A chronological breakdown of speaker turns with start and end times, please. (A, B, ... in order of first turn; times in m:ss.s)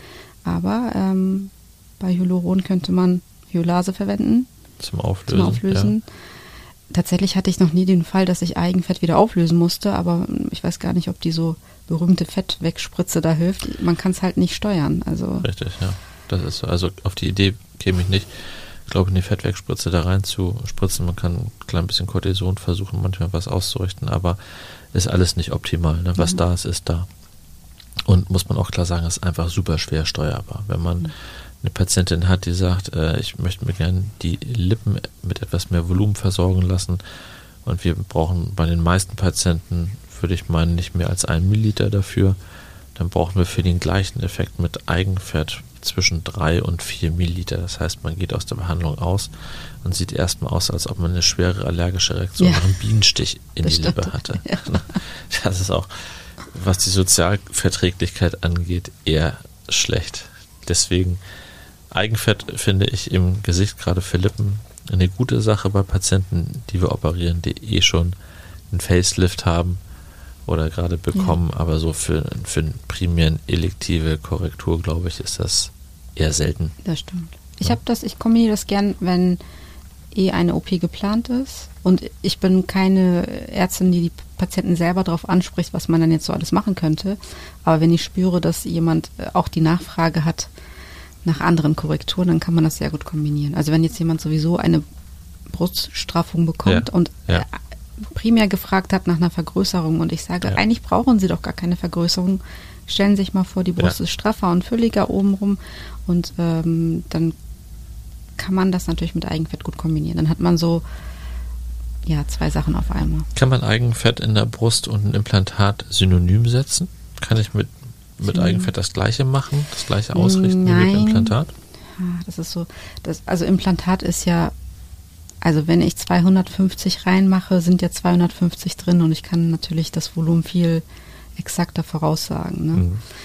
0:00.4-0:04.5 A
0:04.8-0:05.9 B
0:05.3-0:06.0 A
0:06.9-0:15.5 A
0:15.4-0:27.1 B
0:28.0-0:37.0 B
0:37.6-0:42.4 B
0:42.9-1:01.2 B
0:52.4-0:52.6 A
0:53.6-0:55.0 A
1:01.9-1:08.1 B
1:08.7-1:09.8 B
1:10.4-1:16.7 B
1:16.8-1:19.4 A
1:20.1-1:30.5 A
1:31.2-1:34.8 A
1:35.5-1:47.3 A
1:36.6-1:37.4 B
1:48.4-1:50.8 A
1:52.0-1:53.3 A
1:53.3-2:01.5 B
1:58.3-1:58.7 A
2:00.1-2:01.4 A
2:02.0-2:04.5 A
2:05.4-2:10.8 A
2:11.4-2:12.8 A
2:12.7-2:13.0 B